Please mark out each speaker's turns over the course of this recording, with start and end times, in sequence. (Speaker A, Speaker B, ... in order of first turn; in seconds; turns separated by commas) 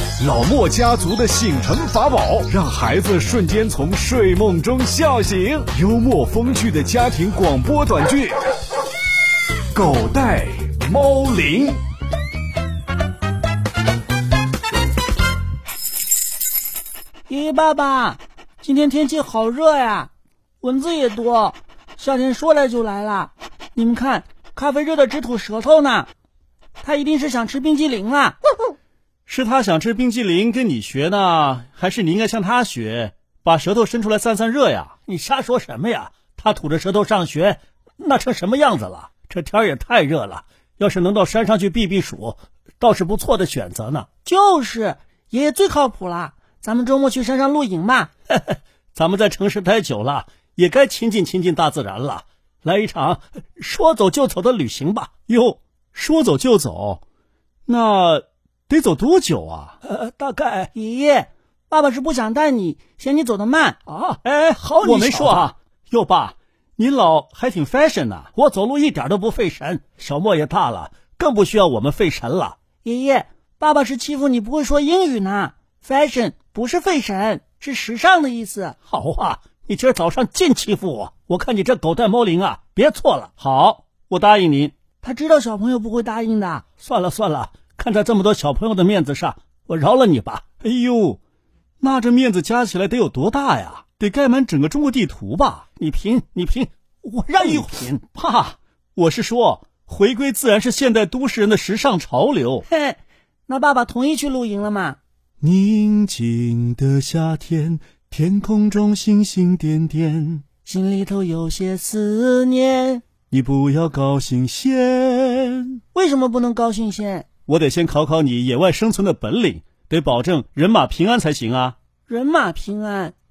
Speaker A: 0.2-8.4, Speaker A: 9.7-11.8, Speaker B: 17.3-20.1, Speaker B: 20.6-26.1, Speaker B: 26.8-28.4, Speaker C: 29.3-44.1, Speaker B: 44.2-48.1, Speaker C: 48.3-57.0, Speaker C: 57.7-60.7, Speaker B: 60.7-63.8, Speaker C: 63.9-72.6, Speaker B: 64.8-65.5, Speaker B: 72.8-78.8, Speaker C: 78.9-84.7, Speaker B: 85.0-86.7, Speaker C: 86.8-91.2, Speaker C: 91.8-102.7, Speaker B: 97.3-97.7, Speaker B: 102.7-105.0, Speaker C: 105.4-110.4, Speaker B: 110.7-113.0, Speaker C: 113.3-115.8, Speaker B: 115.9-117.2, Speaker C: 117.5-121.8, Speaker B: 122.1-123.2